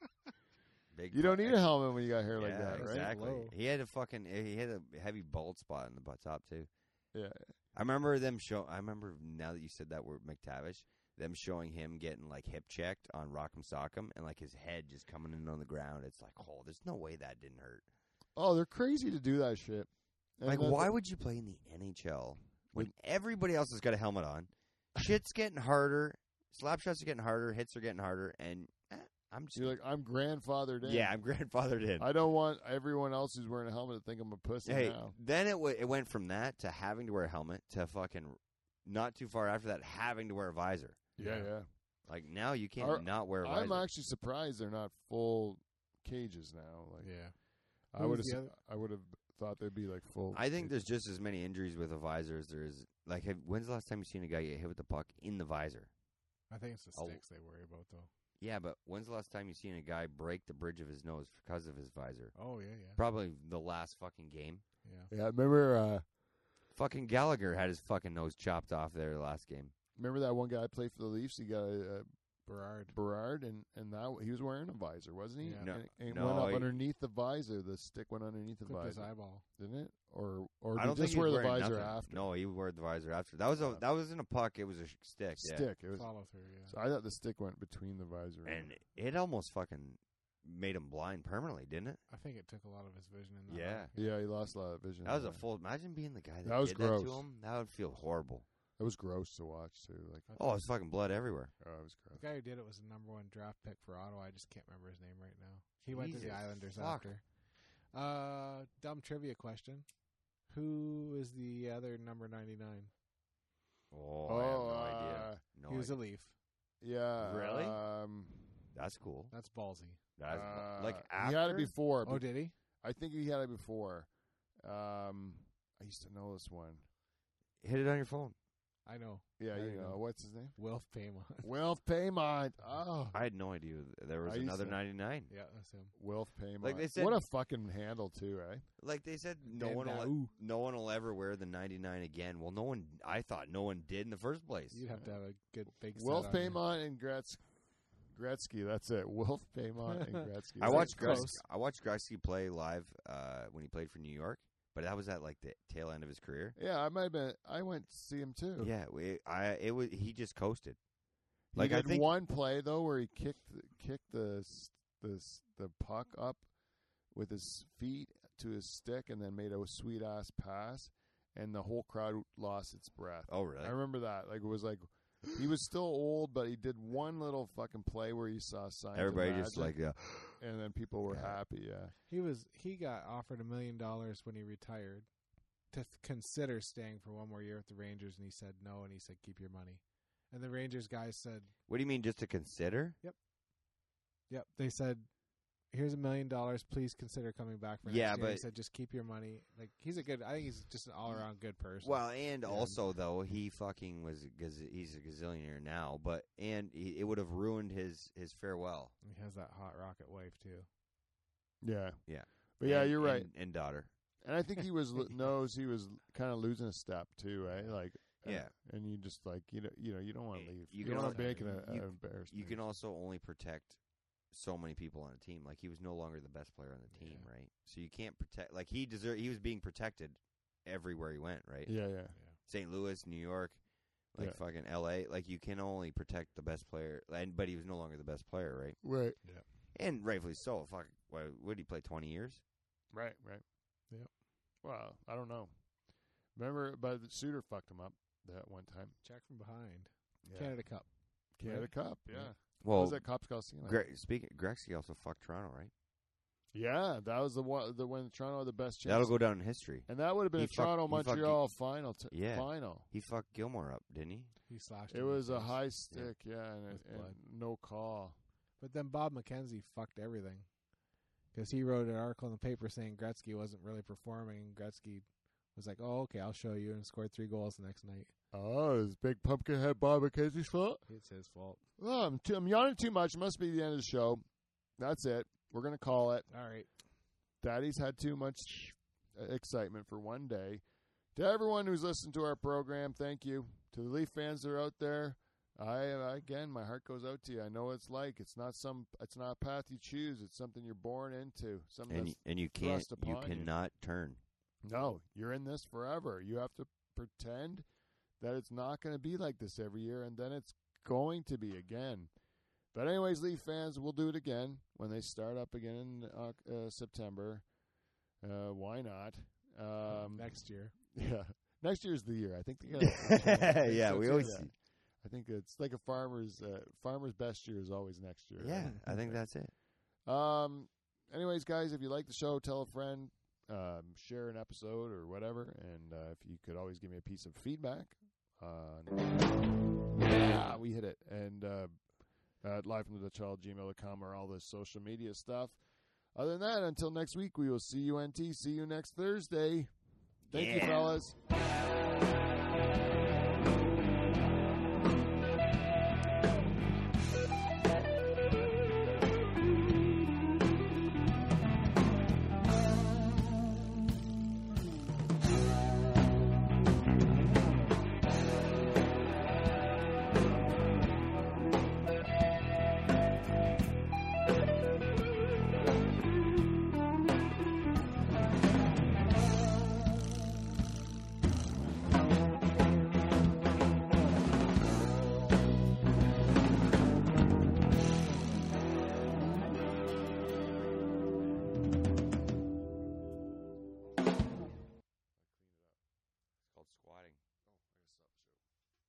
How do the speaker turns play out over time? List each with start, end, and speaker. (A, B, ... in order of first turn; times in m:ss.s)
0:00.9-0:01.7 A
0:01.1-0:03.1 B
0:02.3-0:06.7 A
0:02.7-0:03.5 C
0:07.7-0:17.8 A
0:18.4-0:20.9 B
0:20.4-0:29.8 A
0:29.5-0:31.1 B
0:30.8-0:32.1 A
0:32.0-0:35.1 B
0:34.6-0:41.0 A
0:41.2-0:41.6 B
0:41.2-0:41.5 C
0:42.0-0:43.8 A
0:42.8-0:47.1 B
0:47.0-0:47.3 C
0:47.9-0:50.8 B
0:47.9-0:48.6 C
0:50.3-0:55.9 A
0:56.5-0:58.1 C
0:56.9-0:57.2 A
0:58.4-1:02.3 A
1:02.3-1:03.0 C
1:02.9-1:04.6 A
1:04.8-1:05.1 C
1:05.1-1:06.0 B
1:06.7-1:09.7 A
1:10.0-1:12.1 B
1:12.4-1:12.9 C
1:12.9-1:22.3 B
1:15.4-1:15.7 C
1:15.6-1:16.7 A
1:18.6-1:19.4 C
1:20.7-1:25.6 A
1:23.5-1:23.8 B
1:25.4-1:26.0 B
1:25.9-1:26.8 C
1:26.7-1:28.7 B
1:28.4-1:32.0 A
1:32.1-1:34.2 C
1:33.5-1:33.9 A
1:34.0-1:35.4 B
1:35.0-1:38.4 A
1:36.4-1:37.2 B
1:38.8-1:40.3 B
1:40.3-1:40.6 C
1:40.4-1:41.5 A
1:41.6-1:42.2 B
1:42.2-1:47.2 C
1:45.8-1:47.1 A
1:47.9-1:49.8 C
1:50.5-1:52.9 C
1:53.9-1:56.0 A
1:54.3-1:55.4 B
1:55.7-1:56.3 C
1:56.8-1:58.7 B
1:57.2-1:57.8 A
1:58.7-1:59.3 A
1:59.3-2:00.0 C
2:00.2-2:01.7 A
2:00.3-2:02.2 B
2:02.0-2:02.5 C
2:02.8-2:04.1 B
2:04.6-2:06.8 B
2:07.6-2:08.3 A
2:08.8-2:10.0 C
2:09.4-2:10.5 B
2:10.5-2:11.5 C
2:11.4-2:13.2 B
2:13.1-2:15.3 A
2:14.2-2:14.8 B
2:15.3-2:15.9 C
2:15.9-2:18.7 B
2:16.6-2:17.2 A
2:18.8-2:24.8 A
2:19.4-2:20.3 C
2:24.7-2:26.6 C
2:25.9-2:27.4 B
2:28.1-2:31.3 B
2:30.0-2:31.4 C
2:30.6-2:36.6 A
2:36.6-2:38.7 B
2:38.6-2:40.8 A
2:41.5-2:42.1 A
2:41.5-2:46.5 B
2:47.1-2:59.8 B
2:53.3-2:53.8 A
2:58.9-3:00.4 A
3:00.4-3:01.9 B
3:01.1-3:01.4 A
3:02.1-3:05.1 C
3:05.7-3:11.5 C
3:11.7-3:13.0 A
3:14.3-3:15.1 C
3:15.7-3:22.8 C
3:17.8-3:18.4 A
3:21.8-3:28.9 A
3:29.0-3:30.7 C
3:31.6-3:32.0 B
3:32.0-3:33.9 A
3:32.6-3:33.3 B
3:34.2-3:42.6 B
3:38.2-3:38.5 A
3:40.3-3:43.8 A
3:40.8-3:41.6 C
3:44.3-3:51.7 A
3:46.9-3:47.3 C
3:51.6-3:52.1 B
3:52.4-3:53.6 A
3:54.1-3:58.8 A
3:58.8-3:59.2 B
3:59.7-4:02.4 A
4:02.9-4:03.4 B
4:04.6-4:05.5 B
4:06.4-4:09.0 B
4:09.0-4:10.8 C
4:10.2-4:10.5 B
4:11.4-4:13.8 B
4:11.4-4:12.3 C
4:12.6-4:13.0 A
4:13.6-4:15.7 A
4:16.5-4:19.2 B
4:18.8-4:21.4 A
4:19.9-4:22.9 B
4:22.1-4:24.3 A
4:24.5-4:25.6 C
4:24.9-4:28.2 B
4:26.7-4:27.1 C
4:28.6-4:30.5 C
4:31.3-4:38.1 C
4:38.3-4:40.8 B
4:40.9-4:41.6 C
4:41.8-4:44.2 B
4:44.8-4:46.3 B
4:46.3-4:46.7 C
4:47.4-4:50.6 B
4:51.1-5:03.5 B
5:01.9-5:04.2 A
5:04.6-5:07.6 B
5:08.2-5:12.1 B
5:12.7-5:17.4 B
5:18.2-5:20.4 B
5:19.9-5:20.7 C
5:20.9-5:29.2 B
5:22.8-5:24.5 A
5:23.2-5:24.4 C
5:28.4-5:29.5 A
5:28.7-5:29.1 C
5:30.0-5:39.3 B
5:40.0-5:41.7 B
5:42.4-5:45.6 B
5:46.1-5:49.7 B
5:50.3-5:51.2 B
5:50.3-5:51.0 A
6:35.2-6:35.8 B
6:36.5-6:37.2 A
6:37.4-6:38.4 B